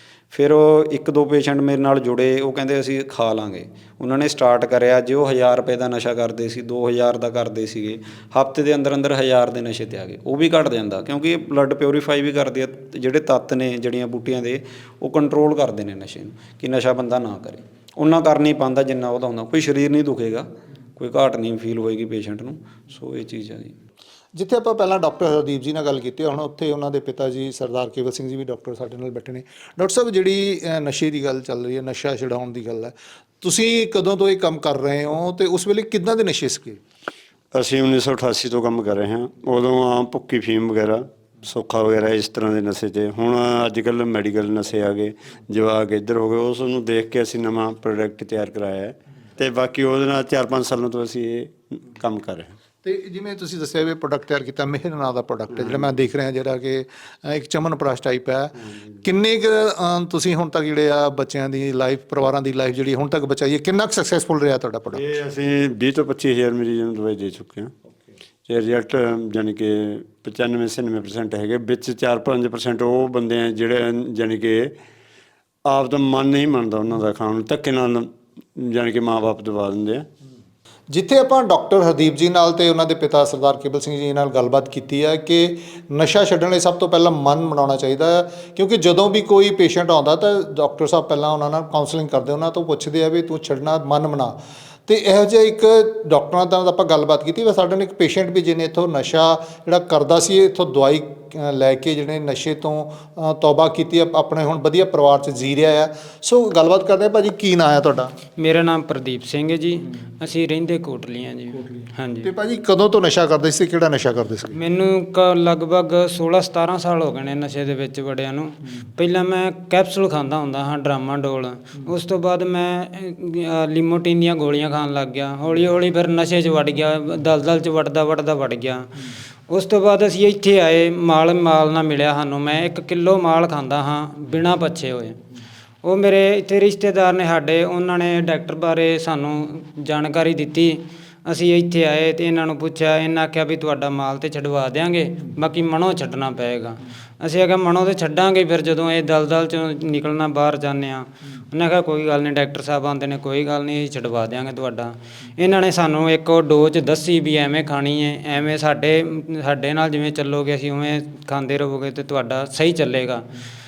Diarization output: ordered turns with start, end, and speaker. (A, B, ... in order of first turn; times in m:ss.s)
0:00.3-0:23.8 A
0:24.4-0:36.8 B
0:37.5-0:52.6 C
0:52.8-1:05.0 B
1:04.9-1:07.7 C
1:08.5-1:14.7 C
1:15.6-1:20.1 C
1:20.9-1:34.4 B
1:34.9-1:48.1 B
1:48.4-1:52.3 D
1:52.2-1:54.6 B
1:54.5-2:09.0 D
2:09.5-2:15.2 D
2:15.8-2:43.3 D